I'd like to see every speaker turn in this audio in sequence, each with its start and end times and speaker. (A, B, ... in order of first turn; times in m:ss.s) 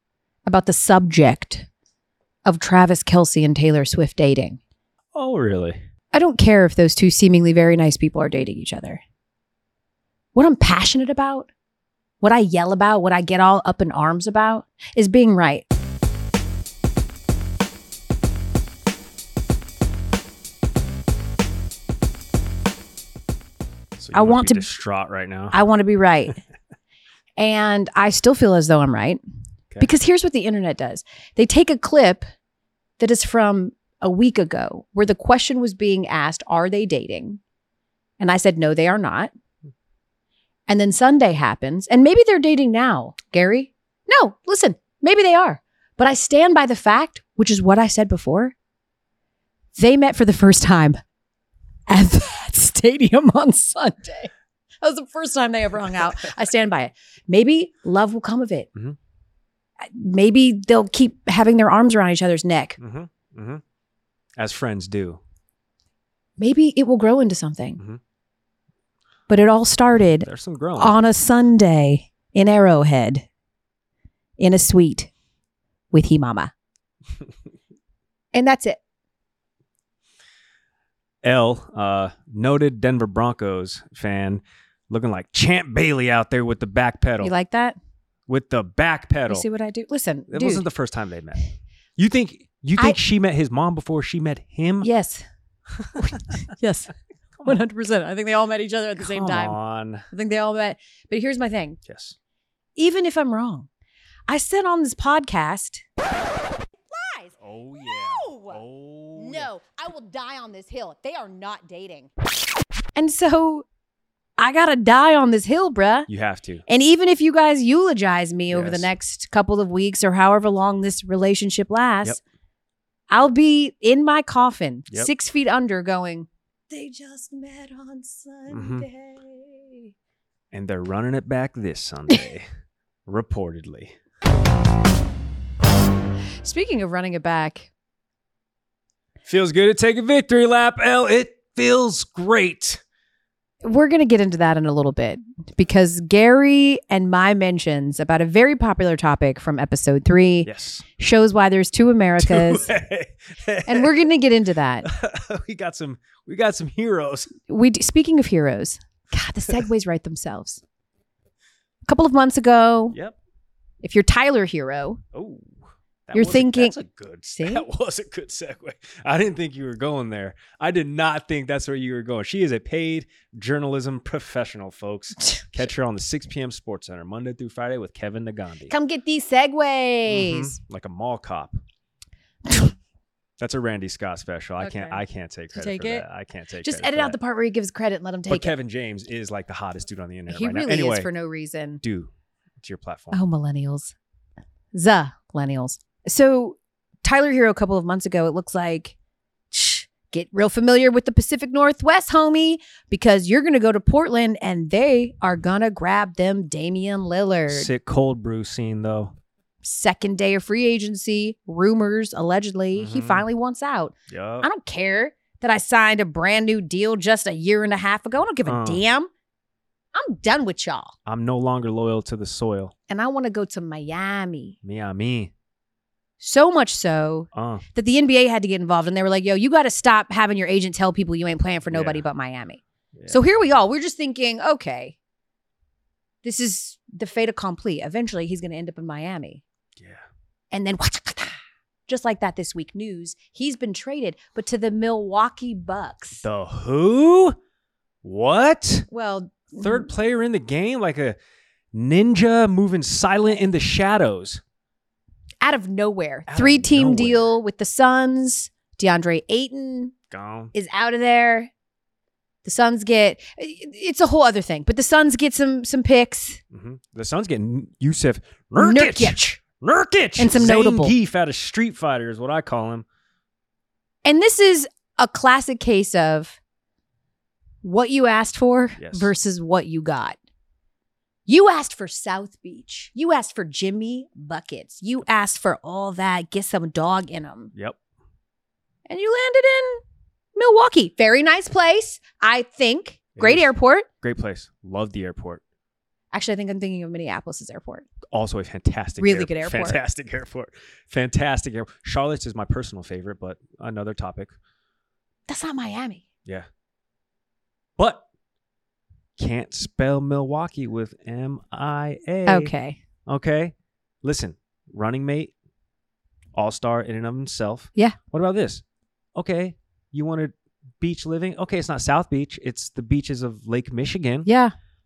0:00.4-0:01.7 A
0:02.4-0:04.6 A
0:05.1-0:05.8 B
0:06.1-0:09.0 A
0:10.3-0:11.5 A
0:12.2-0:15.6 A
0:24.0-0:25.6 B
0:24.1-0:24.7 A
0:25.5-0:26.4 A
0:27.4-0:29.2 A
0:29.8-0:32.3 A
0:33.0-0:37.4 A
0:38.2-0:39.3 A
0:40.7-0:48.5 A
0:49.8-0:51.0 A
0:51.9-0:54.3 A
0:54.8-0:58.7 A
0:59.8-1:02.8 A
1:02.8-1:03.6 B
1:04.4-1:05.2 B
1:06.4-1:07.8 A
1:09.3-1:13.2 A
1:10.2-1:11.0 B
1:14.4-1:15.1 A
1:15.9-1:16.5 A
1:18.3-1:18.8 A
1:21.2-1:27.3 B
1:27.2-1:27.8 A
1:28.3-1:29.5 B
1:29.3-1:30.6 A
1:30.3-1:34.9 B
1:34.8-1:35.2 A
1:35.8-1:36.2 B
1:36.0-1:36.9 A
1:37.4-1:39.6 A
1:39.0-1:40.0 B
1:40.1-1:41.8 A
1:41.8-1:42.2 B
1:42.8-1:43.7 A
1:44.3-1:45.8 A
1:46.9-1:48.6 A
1:47.4-1:49.5 B
1:49.2-1:52.1 A
1:53.0-1:53.7 A
1:54.4-1:56.1 A
1:56.1-1:56.6 B
1:56.7-2:02.2 A
1:58.5-1:58.9 B
2:03.1-2:09.9 A
2:08.5-2:08.9 B
2:10.5-2:12.5 B
2:13.1-2:14.0 B
2:16.4-2:17.7 A
2:19.2-2:22.8 B
2:23.6-2:32.7 A
2:30.4-2:30.8 B
2:32.2-2:34.0 B
2:33.7-2:34.9 A
2:34.8-2:37.3 B
2:37.5-2:40.6 A
2:41.9-2:43.0 A
2:43.8-2:45.0 A
2:45.1-2:45.6 B
2:46.1-2:58.7 B
2:46.1-2:46.8 A
2:47.3-2:47.7 A
2:55.2-2:55.6 A
2:58.7-3:00.6 A
3:00.1-3:01.6 B
3:03.4-3:07.2 B
3:04.6-3:05.0 A
3:05.5-3:06.0 A
3:06.6-3:08.5 A
3:08.3-3:11.1 B
3:10.3-3:11.8 A
3:11.8-3:13.2 B
3:13.1-3:13.9 A
3:14.7-3:18.9 A
3:19.5-3:27.7 A
3:27.5-3:29.2 B
3:29.6-3:39.1 A
3:32.8-3:33.2 B
3:34.1-3:34.5 B
3:38.5-3:38.8 B
3:39.9-3:40.9 A
3:41.1-3:42.7 B
3:42.9-3:44.6 A
3:44.6-3:45.3 B
3:46.2-3:55.0 A
3:47.3-3:47.6 B
3:51.7-3:52.1 B
3:56.2-3:59.4 A
3:59.8-4:00.0 B
4:00.5-4:06.2 A
4:06.2-4:07.4 B
4:08.0-4:08.9 B
4:08.9-4:09.9 A
4:09.6-4:11.2 B
4:11.7-4:14.4 B
4:15.4-4:19.9 A
4:16.3-4:17.3 B
4:20.1-4:20.5 B
4:20.5-4:21.5 A
4:22.4-4:26.4 A
4:26.5-4:32.9 B
4:28.6-4:29.4 A
4:30.2-4:30.9 A
4:34.0-4:36.4 A
4:37.6-4:40.2 A
4:38.8-4:39.1 B
4:41.3-4:47.5 A
4:48.9-4:49.8 A
4:50.4-4:53.9 A
4:53.2-4:53.5 B
4:54.0-4:55.4 B
4:56.1-4:57.9 A
4:58.1-5:04.3 B
4:59.0-4:59.8 A
5:05.3-5:06.0 A
5:07.8-5:08.1 B
5:09.2-5:12.5 B
5:12.2-5:12.8 A
5:13.1-5:15.3 B
5:16.3-5:18.6 B
5:19.1-5:24.3 B
5:24.2-5:24.5 A